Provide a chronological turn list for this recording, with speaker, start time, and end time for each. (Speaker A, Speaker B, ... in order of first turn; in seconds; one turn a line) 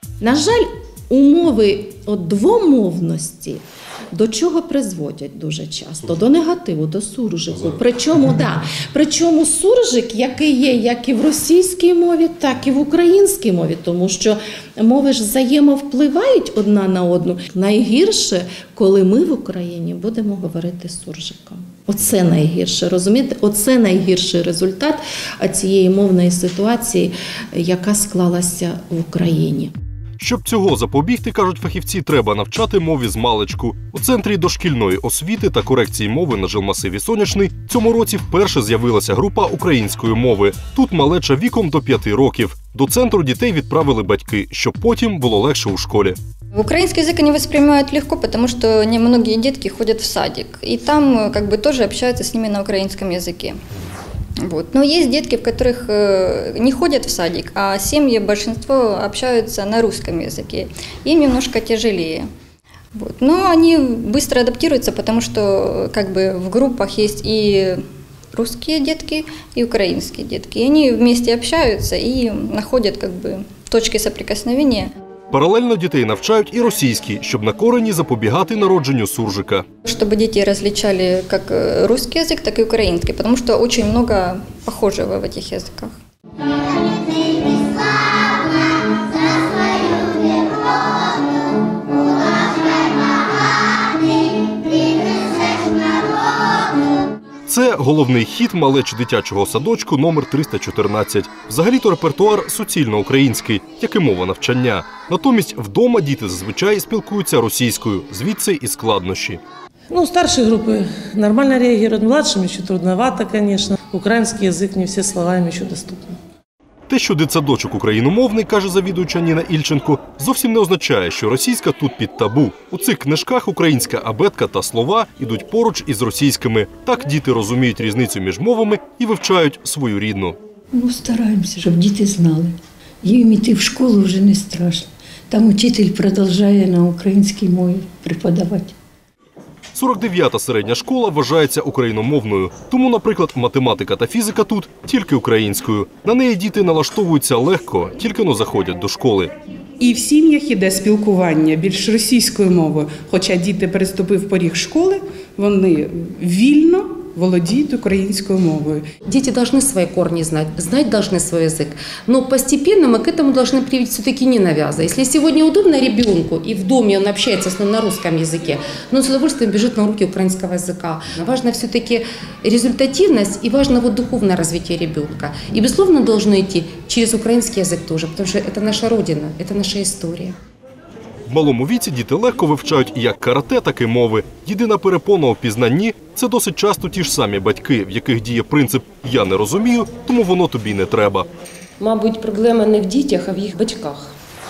Speaker A: 0.2-29.7
Speaker B: 30.2-46.2
Speaker C: 46.5-53.6
Speaker C: 54.4-62.2
Speaker C: 62.9-67.8
Speaker C: 68.3-74.9
Speaker B: 75.3-79.6
Speaker C: 79.9-85.9
Speaker B: 97.5-109.4
Speaker D: 109.9-116.2
Speaker B: 116.9-130.4
Speaker E: 130.7-138.7
Speaker B: 139.7-149.3
Speaker F: 149.8-158.8
Speaker G: 159.1-180.3
Speaker B: 181.3-191.3
Speaker H: 191.8-194.1